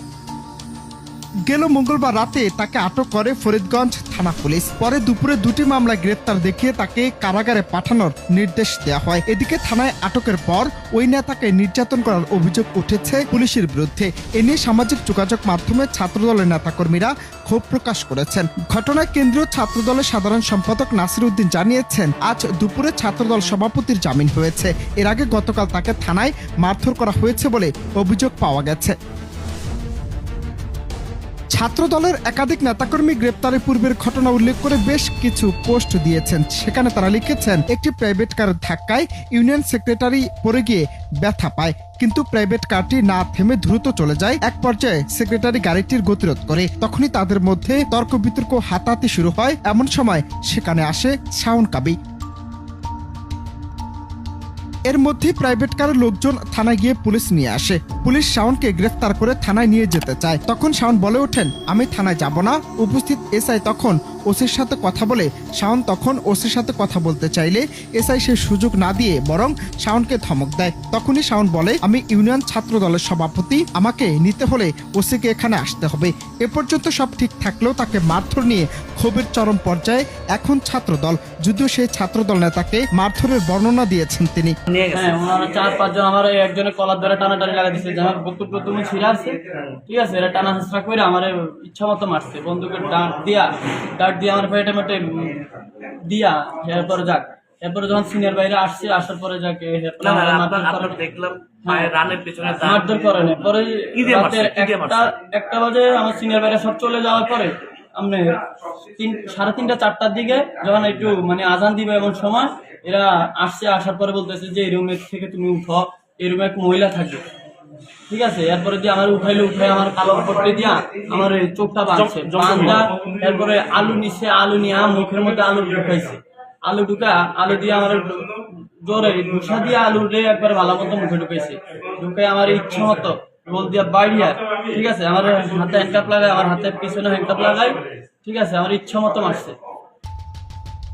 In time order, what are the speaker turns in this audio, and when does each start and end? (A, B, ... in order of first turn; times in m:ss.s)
0:01.5-0:29.0 A
0:31.6-0:52.0 A
0:54.9-1:24.6 A
1:24.7-1:25.2 B
1:24.9-1:41.0 C
1:40.0-1:43.3 B
1:41.6-1:42.0 C
1:42.6-1:48.4 C
1:44.0-1:45.2 B
1:49.0-1:57.2 C
1:58.1-2:19.6 C